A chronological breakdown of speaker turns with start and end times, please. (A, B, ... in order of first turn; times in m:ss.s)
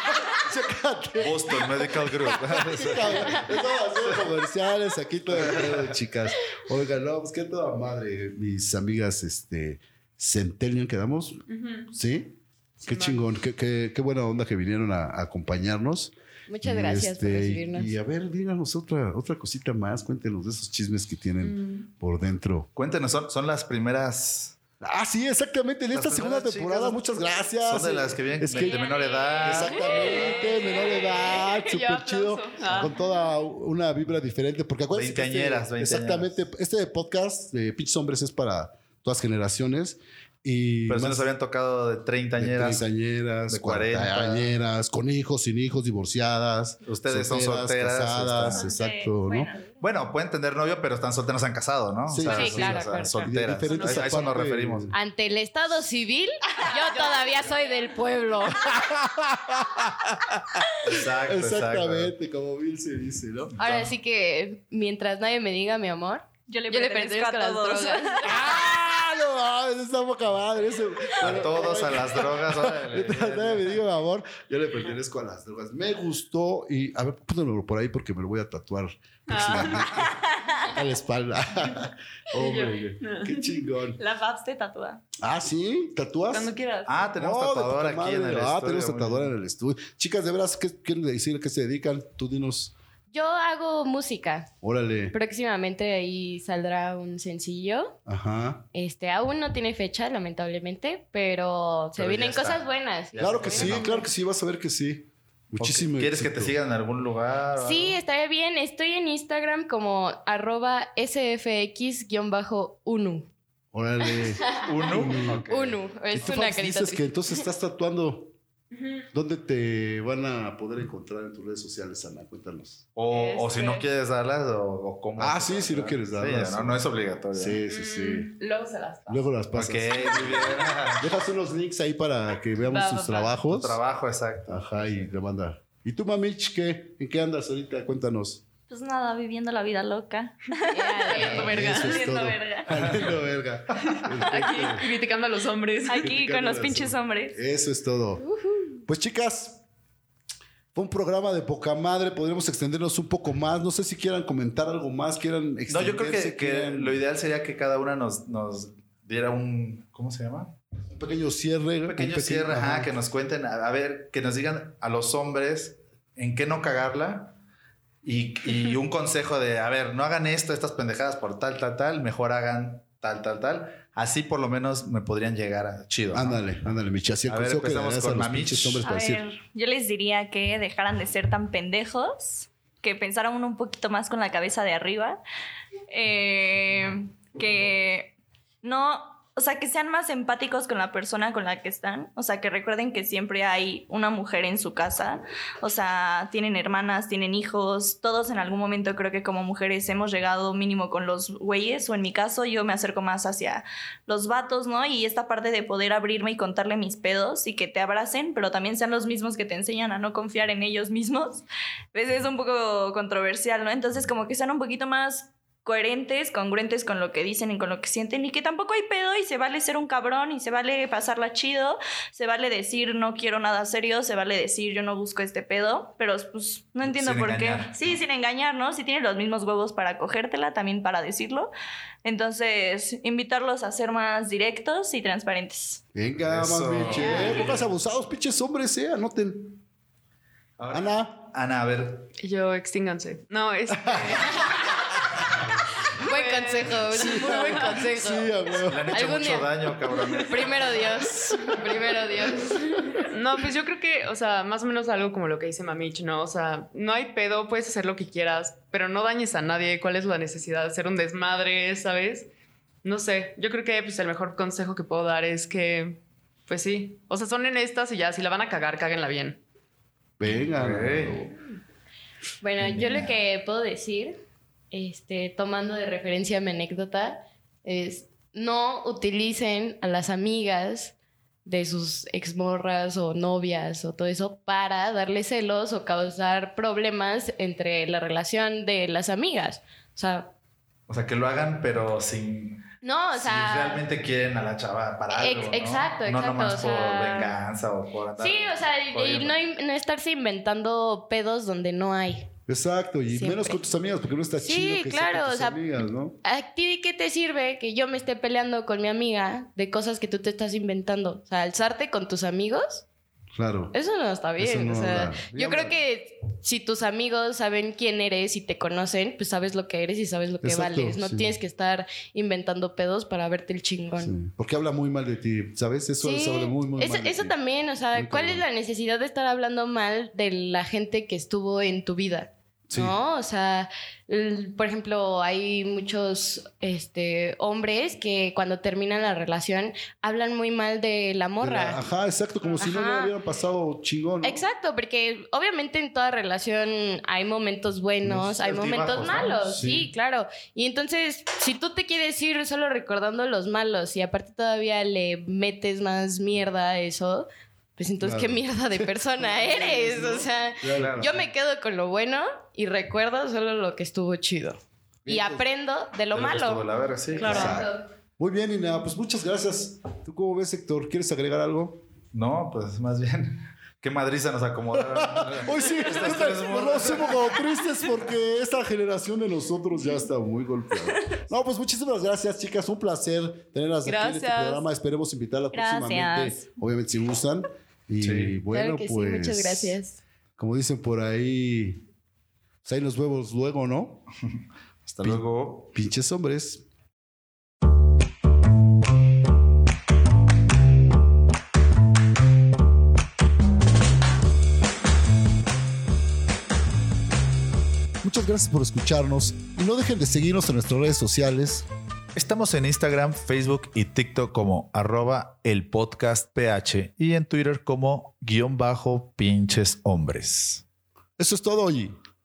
0:00.3-0:22.7 A
0:01.2-0:03.5 B
0:05.4-0:05.8 B
0:11.5-0:11.9 C
0:12.8-0:13.2 C
0:16.5-0:18.0 D
0:21.4-0:21.9 C
0:22.8-0:24.6 B
0:24.8-0:28.8 A
0:25.9-0:29.9 B
0:28.6-0:29.0 C
0:28.6-0:31.4 E
0:29.4-0:41.3 A
0:29.7-0:33.1 C
0:34.9-0:36.4 B
0:40.9-0:42.8 B
0:42.4-0:49.5 A
0:43.5-0:44.5 B
0:46.9-0:48.7 B
0:48.5-0:49.8 E
0:49.8-0:54.9 B
0:52.1-0:54.9 A
0:52.2-0:53.2 D
0:53.7-0:54.3 C
0:54.9-0:58.7 D
0:56.9-0:57.6 C
0:58.5-1:03.6 A
1:00.8-1:02.1 B
1:03.6-1:08.4 D
1:06.5-1:08.5 E
1:08.2-1:24.0 A
1:11.2-1:13.8 B
1:19.3-1:20.2 C
1:19.5-1:19.8 B
1:20.1-1:20.6 E
1:22.3-1:23.6 C
1:24.0-1:25.0 E
1:25.2-1:26.6 A
1:26.3-1:27.1 C
1:26.9-1:29.3 B
1:27.2-1:32.7 A
1:33.1-1:34.5 D
1:34.6-1:35.2 A
1:35.1-1:38.0 D
1:38.1-1:38.6 A
1:38.7-1:44.1 D
1:42.0-1:44.0 B
1:43.2-1:46.6 A
1:45.6-1:48.0 B
1:47.6-1:53.3 D
1:53.7-1:55.4 A
1:54.1-1:54.7 D
1:54.6-1:55.8 B
1:55.4-1:57.1 D
1:56.1-1:58.3 A
1:58.7-1:59.1 C
1:59.1-2:02.9 A
2:02.9-2:07.6 B
2:03.1-2:03.9 C
2:05.2-2:08.3 A
2:07.7-2:09.2 C
2:09.1-2:13.8 A
2:09.6-2:11.0 B
2:10.3-2:10.7 C
2:12.6-2:13.4 C
2:13.5-2:15.1 B
2:14.5-2:18.4 A
2:18.7-2:21.1 E
2:20.7-2:21.6 D
2:21.1-2:22.3 C
2:21.2-2:24.9 A
2:21.7-2:22.8 E
2:22.7-2:23.1 B
2:23.9-2:26.1 C
2:24.4-2:24.7 E
2:25.8-2:27.4 E
2:26.0-2:28.2 A
2:28.9-2:29.6 A
2:30.7-2:37.0 A
2:35.7-2:40.5 B
2:40.9-2:42.9 A
2:41.9-2:47.4 B
2:48.0-2:56.4 B
2:56.1-2:59.2 A
2:57.3-2:58.8 B
2:58.8-3:05.2 E
3:05.9-3:51.5 E
3:46.8-3:48.0 B
3:52.0-3:55.8 E
3:55.9-3:59.6 A
3:56.2-3:57.7 B
4:00.6-4:02.1 B
4:00.7-4:01.2 A
4:02.2-4:04.7 C
4:03.8-4:04.3 A
4:06.0-4:07.8 C
4:06.0-4:09.5 D
4:06.9-4:09.0 A
4:08.7-4:10.7 B
4:10.2-4:12.6 D
4:11.1-4:11.4 A
4:13.0-4:22.3 C
4:22.8-4:29.4 C
4:30.2-4:31.3 A
4:30.2-4:31.2 B
4:32.4-4:34.2 D
4:32.6-4:33.1 B
4:34.7-4:40.9 D
4:41.4-4:50.3 D
4:50.9-4:52.6 B
4:52.8-4:53.9 D
4:53.1-4:59.4 B
4:55.1-4:57.4 D
4:58.2-5:02.3 D
5:02.5-5:06.2 A
5:03.1-5:03.6 D
5:04.4-5:05.6 D
5:06.2-5:12.8 D
5:13.3-5:13.7 A
5:13.7-5:24.2 D
5:14.4-5:15.8 A
5:20.4-5:21.4 A
5:24.0-5:27.4 A
5:26.0-5:41.8 D
5:27.9-5:28.4 A
5:32.7-5:33.0 A
5:41.4-5:44.4 A
5:42.6-5:43.1 D
5:44.2-6:07.8 D
5:48.1-5:49.8 B
5:49.6-5:49.9 A
5:58.0-6:01.2 A
6:00.8-6:01.2 B
6:05.0-6:05.5 A
6:06.1-6:07.6 B
6:07.2-6:07.6 E
6:07.2-6:11.8 A
6:12.1-6:17.3 B
6:14.7-6:29.8 A
6:23.8-6:24.6 C
6:25.5-6:26.4 E
6:28.0-6:28.4 B
6:28.5-6:30.0 D
6:30.4-6:31.8 A
6:32.6-6:34.0 A
6:34.8-6:35.7 B
6:35.0-6:36.6 A
6:48.0-6:51.6 A
6:52.1-7:00.6 B
7:01.2-7:02.0 A